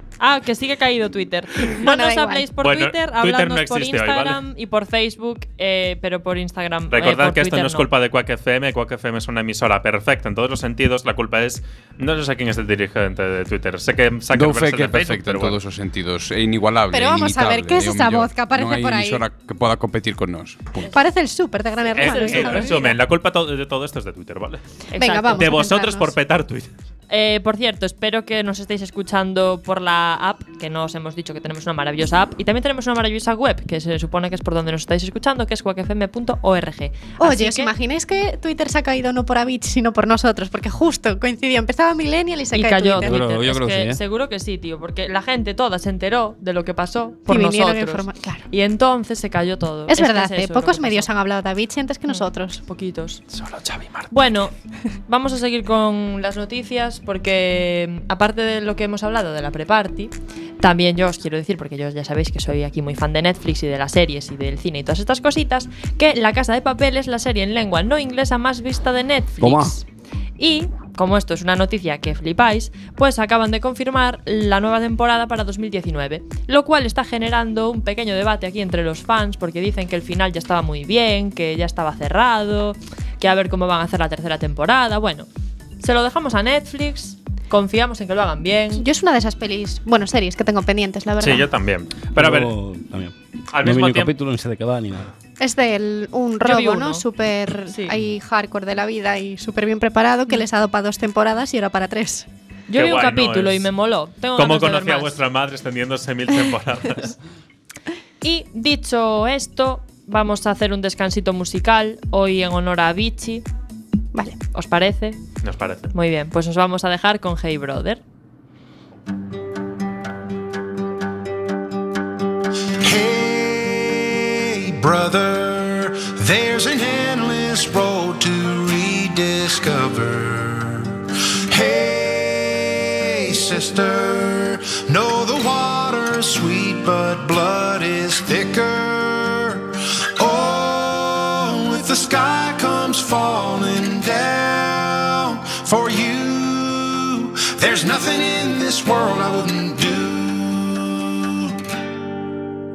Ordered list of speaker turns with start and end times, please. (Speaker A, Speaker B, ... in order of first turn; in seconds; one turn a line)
Speaker A: 0.2-7.9
Speaker B: 1.7-2.5
Speaker C: 2.6-4.4
Speaker C: 6.9-15.6
Speaker D: 14.3-20.9
Speaker B: 16.9-19.2
Speaker B: 20.9-23.0
Speaker A: 21.9-22.9
Speaker C: 21.9-24.6
Speaker A: 24.9-25.5
Speaker B: 25.0-26.1
Speaker C: 25.4-26.7
Speaker A: 27.1-37.7
Speaker B: 37.2-43.2
Speaker A: 42.5-51.1
Speaker E: 43.0-44.0
Speaker B: 47.3-48.5
Speaker B: 49.9-52.6
Speaker A: 52.1-53.2
Speaker C: 53.3-54.1
Speaker A: 54.1-54.5
Speaker A: 55.1-69.8
Speaker E: 69.4-69.8
Speaker A: 70.4-85.3
Speaker A: 85.8-88.8
Speaker B: 88.8-91.5
Speaker C: 91.2-92.5
Speaker E: 92.1-95.1
Speaker C: 93.5-94.1
Speaker B: 95.4-102.3
Speaker A: 96.4-97.0
Speaker A: 102.7-105.2
Speaker C: 102.8-103.7
Speaker C: 104.3-107.2
Speaker A: 108.2-113.5
Speaker A: 114.5-115.2
Speaker C: 115.4-115.9
Speaker A: 115.9-118.0
Speaker F: 122.8-131.0
Speaker F: 131.5-151.6